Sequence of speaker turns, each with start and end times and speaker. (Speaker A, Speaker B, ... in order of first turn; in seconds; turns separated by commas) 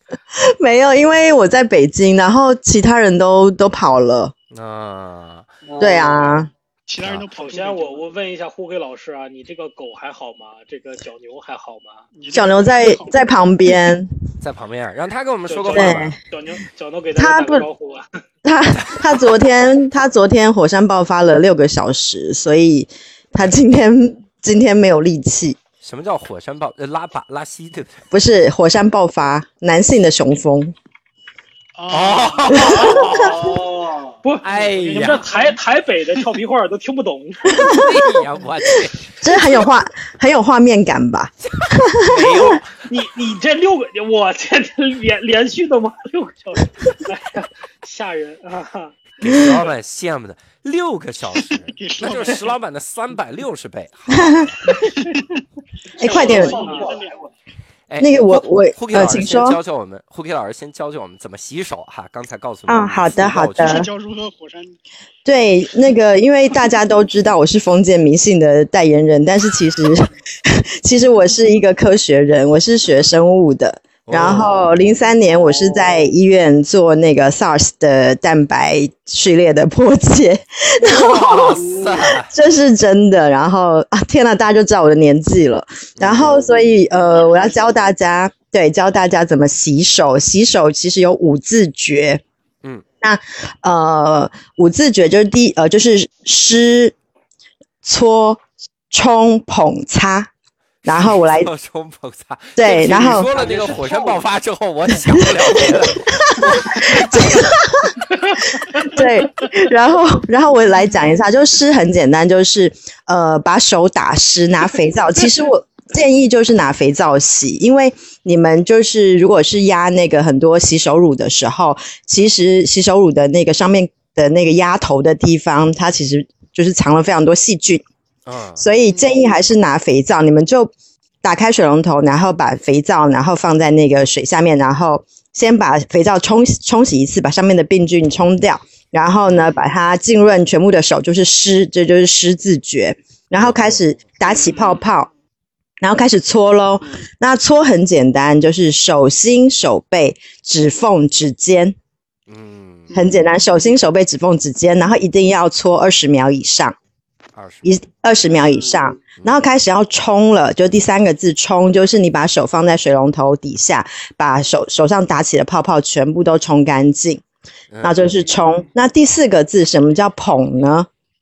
Speaker A: 0.3-4.3, Speaker B: 4.5-5.5, Speaker C: 5.6-6.3, Speaker A: 5.8-6.5, Speaker D: 6.9-8.0, Speaker E: 7.3-12.1, Speaker D: 12.1-13.2, Speaker A: 12.3-14.1, Speaker B: 14.4-16.1, Speaker E: 15.5-18.1, Speaker A: 15.7-16.2, Speaker A: 17.1-17.6, Speaker A: 18.4-25.6, Speaker B: 25.8-28.0, Speaker A: 28.1-30.7, Speaker D: 31.8-33.1, Speaker B: 31.9-33.3, Speaker A: 32.6-32.9, Speaker C: 32.6-34.2, Speaker E: 32.9-33.2, Speaker E: 34.2-37.7, Speaker B: 34.4-35.2, Speaker D: 34.7-35.5, Speaker A: 37.5-37.9, Speaker B: 37.6-39.7, Speaker A: 39.2-42.6, Speaker B: 41.6-42.7, Speaker E: 42.8-49.0, Speaker B: 49.2-54.6, Speaker A: 49.2-49.6, Speaker D: 51.8-52.5, Speaker A: 54.1-54.5, Speaker D: 54.7-55.4, Speaker C: 56.0-57.3, Speaker A: 56.0-56.6, Speaker D: 56.0-57.2, Speaker E: 56.2-56.9, Speaker B: 57.9-63.9, Speaker A: 58.0-59.6, Speaker A: 62.7-63.9, Speaker D: 63.5-64.8, Speaker A: 65.2-81.6, Speaker B: 74.0-74.6, Speaker B: 80.8-82.3, Speaker C: 81.3-82.1, Speaker A: 82.2-92.2, Speaker B: 86.0-86.5, Speaker A: 93.0-97.0, Speaker A: 97.8-100.3, Speaker A: 100.8-101.5, Speaker B: 100.8-107.5, Speaker A: 102.5-103.3, Speaker C: 102.9-104.2, Speaker A: 105.1-127.8, Speaker B: 128.2-128.7, Speaker A: 128.6-145.1, Speaker B: 143.3-143.8, Speaker C: 144.3-144.7, Speaker A: 145.8-151.7, Speaker B: 152.3-153.0, Speaker D: 152.9-153.2, Speaker A: 152.9-156.8, Speaker B: 157.3-157.8, Speaker A: 157.6-167.2, Speaker C: 158.5-158.8, Speaker B: 159.2-159.4, Speaker B: 167.7-168.2, Speaker A: 167.8-170.9